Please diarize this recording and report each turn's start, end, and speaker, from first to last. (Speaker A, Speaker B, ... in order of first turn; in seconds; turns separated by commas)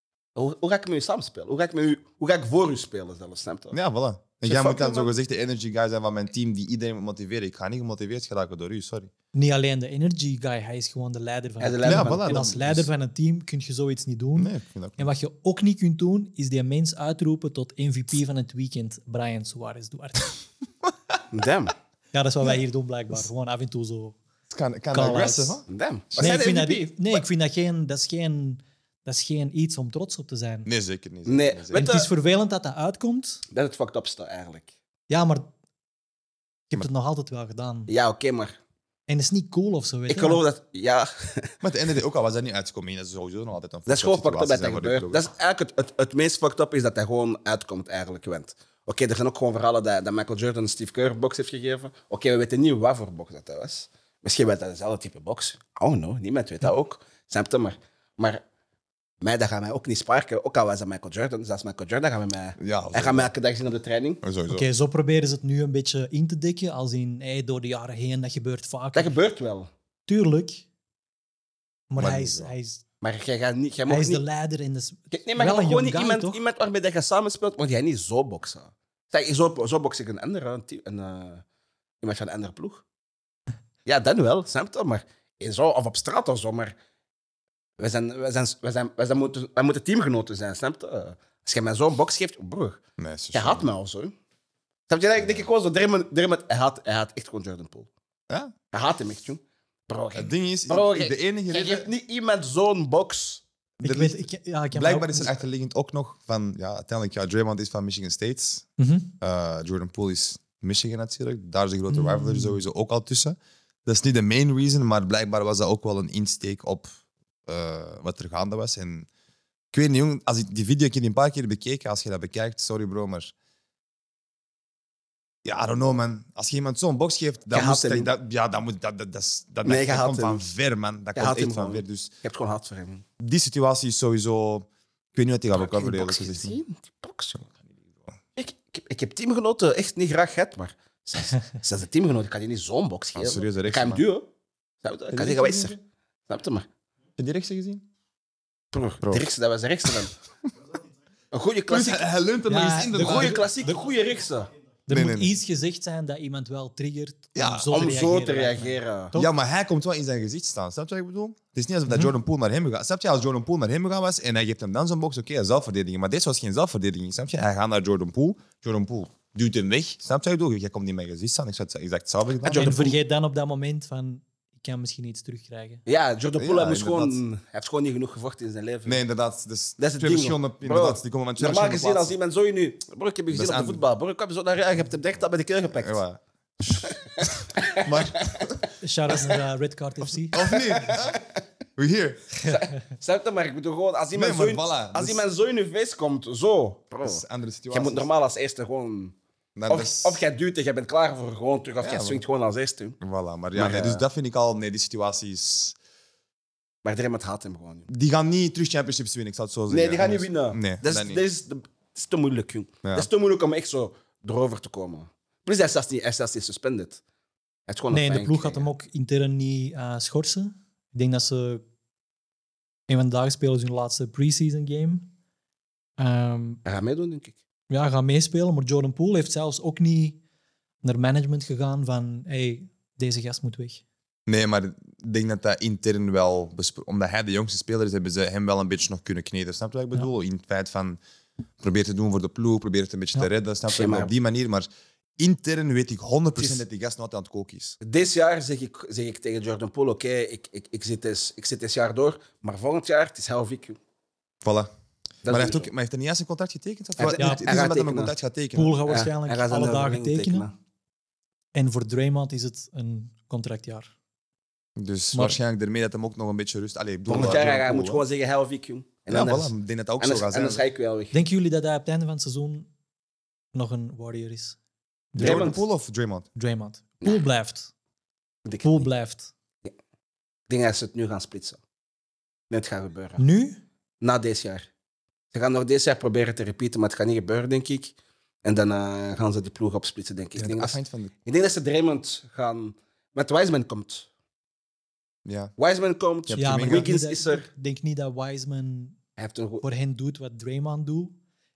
Speaker A: 0.3-3.8, Speaker B: 3.7-9.1, Speaker A: 4.4-5.1, Speaker C: 9.3-20.3, Speaker A: 11.6-12.6, Speaker B: 11.8-12.8, Speaker B: 14.4-15.1, Speaker A: 21.3-21.7, Speaker C: 22.1-24.2, Speaker B: 24.5-26.4, Speaker C: 24.9-25.6, Speaker A: 25.7-27.2, Speaker C: 26.2-30.7, Speaker B: 30.6-31.8, Speaker A: 31.2-32.1, Speaker C: 31.7-33.4, Speaker A: 33.5-34.7, Speaker C: 35.1-35.5, Speaker C: 36.7-37.9, Speaker A: 37.9-38.5, Speaker C: 39.1-40.4, Speaker A: 40.1-41.5, Speaker B: 41.6-45.3, Speaker A: 43.9-58.4, Speaker A: 59.2-64.2, Speaker B: 62.6-63.3, Speaker B: 64.2-64.7, Speaker C: 64.5-69.1, Speaker A: 68.9-69.7, Speaker C: 70.0-70.6, Speaker C: 71.9-72.8, Speaker B: 72.0-72.5, Speaker A: 73.0-74.2, Speaker C: 73.9-76.4, Speaker A: 75.1-81.4, Speaker A: 82.0-82.8, Speaker A: 83.8-86.7, Speaker A: 87.8-92.8, Speaker B: 93.0-93.7, Speaker A: 93.3-94.1, Speaker A: 94.9-97.9, Speaker B: 95.2-95.5, Speaker A: 98.7-103.4, Speaker B: 100.1-101.9, Speaker C: 103.8-105.3, Speaker B: 103.8-104.2, Speaker B: 104.7-108.7, Speaker C: 108.8-109.1, Speaker B: 109.2-116.9, Speaker C: 111.9-112.6, Speaker B: 117.5-119.1, Speaker B: 119.7-123.3, Speaker B: 125.4-132.1, Speaker A: 127.5-128.1, Speaker A: 129.6-130.4, Speaker A: 131.1-133.0, Speaker B: 133.2-136.6, Speaker A: 135.5-137.5, Speaker B: 137.5-138.0, Speaker A: 138.4-144.3, Speaker B: 143.1-144.0, Speaker A: 144.8-145.8, Speaker B: 145.1-145.8, Speaker A: 146.3-146.7, Speaker B: 147.2-147.8, Speaker A: 148.7-150.2, Speaker B: 149.0-149.3, Speaker A: 151.3-152.1, Speaker B: 151.7-153.4, Speaker C: 152.5-153.8, Speaker A: 152.9-154.5, Speaker C: 154.9-159.3, Speaker B: 154.9-155.3, Speaker B: 157.3-157.7, Speaker A: 157.7-159.1, Speaker B: 159.1-172.8, Speaker A: 172.4-172.9, Speaker C: 172.5-175.8, Speaker A: 175.9-179.0, Speaker B: 176.4-177.2, Speaker B: 178.8-182.1, Speaker A: 179.8-186.0, Speaker B: 183.3-183.8, Speaker B: 185.7-188.6, Speaker A: 186.7-188.5, Speaker C: 188.8-190.6, Speaker B: 190.3-191.2, Speaker A: 190.5-191.2, Speaker B: 191.8-192.4, Speaker A: 192.4-199.1, Speaker B: 194.1-195.2, Speaker B: 197.0-198.1, Speaker B: 199.6-200.2, Speaker A: 199.7-203.0, Speaker B: 201.8-202.2, Speaker B: 203.0-205.8, Speaker A: 203.5-204.0, Speaker A: 206.8-207.9, Speaker B: 207.9-211.2, Speaker A: 209.7-217.0, Speaker A: 217.7-218.7, Speaker C: 217.9-221.6, Speaker C: 222.9-225.1, Speaker C: 226.0-226.6, Speaker A: 226.7-227.4, Speaker C: 227.7-230.2, Speaker C: 230.8-233.8, Speaker B: 234.3-241.0, Speaker B: 241.6-244.7, Speaker A: 243.7-244.1, Speaker B: 245.2-247.8, Speaker A: 246.4-246.6, Speaker A: 247.8-253.8, Speaker B: 254.4-254.7, Speaker A: 255.2-255.7, Speaker B: 255.2-258.8, Speaker A: 257.0-258.1, Speaker C: 257.2-257.6, Speaker C: 258.5-260.4, Speaker A: 258.9-260.5, Speaker C: 261.5-263.9, Speaker B: 264.8-268.0, Speaker A: 267.1-271.1, Speaker B: 269.1-270.6, Speaker C: 271.1-272.7, Speaker C: 273.5-274.6, Speaker C: 275.1-275.5, Speaker A: 275.2-275.6, Speaker B: 275.2-276.3, Speaker C: 276.4-277.7, Speaker A: 278.4-278.9, Speaker C: 278.6-279.3, Speaker A: 280.5-281.6, Speaker A: 282.5-283.2, Speaker C: 283.2-283.6, Speaker A: 284.0-284.6, Speaker A: 285.3-294.1, Speaker B: 290.4-291.1, Speaker B: 295.2-295.5, Speaker A: 295.6-297.4, Speaker B: 296.3-296.9, Speaker C: 296.4-299.0, Speaker A: 299.2-299.6, Speaker C: 299.6-301.1